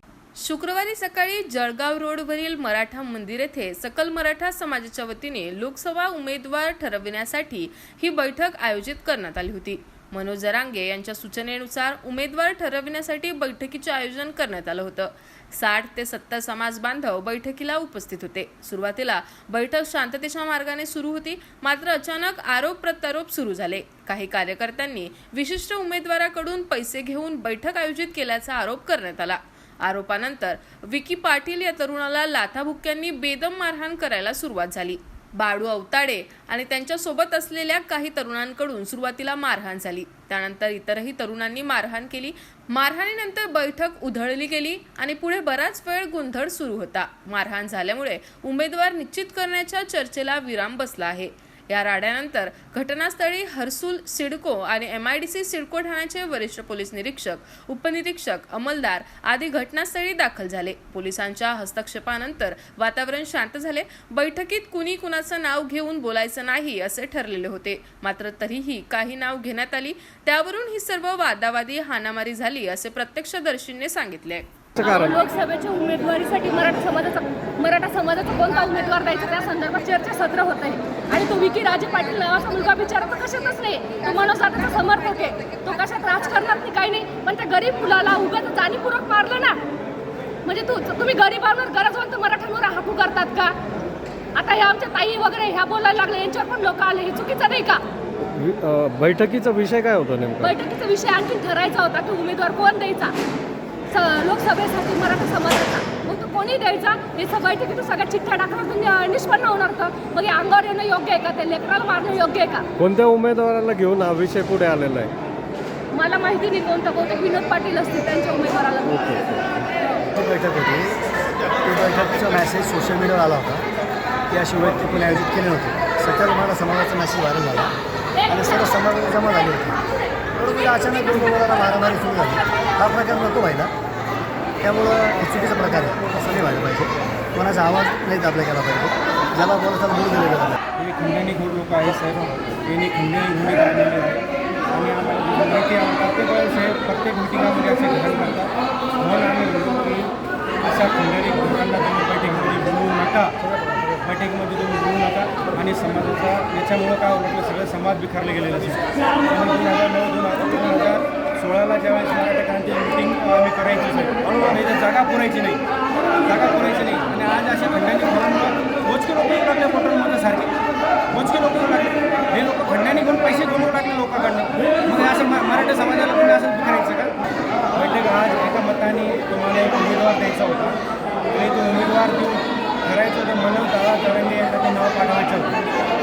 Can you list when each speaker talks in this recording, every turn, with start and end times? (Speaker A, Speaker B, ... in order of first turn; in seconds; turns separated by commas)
Speaker A: 0.4-74.5, Speaker B: 74.8-75.2, Speaker C: 74.8-89.6, Speaker C: 90.5-93.5, Speaker C: 94.3-97.8, Speaker B: 98.2-100.6, Speaker C: 100.4-103.1, Speaker C: 103.9-112.7, Speaker B: 112.8-115.1, Speaker C: 115.9-119.2, Speaker B: 118.8-119.7, Speaker D: 120.1-121.0, Speaker D: 121.6-123.6, Speaker D: 124.3-127.7, Speaker D: 128.2-129.8, Speaker D: 130.4-133.7, Speaker D: 134.6-140.6, Speaker E: 140.8-153.3, Speaker E: 154.0-165.6, Speaker E: 166.2-170.6, Speaker E: 171.1-177.1, Speaker E: 177.7-185.6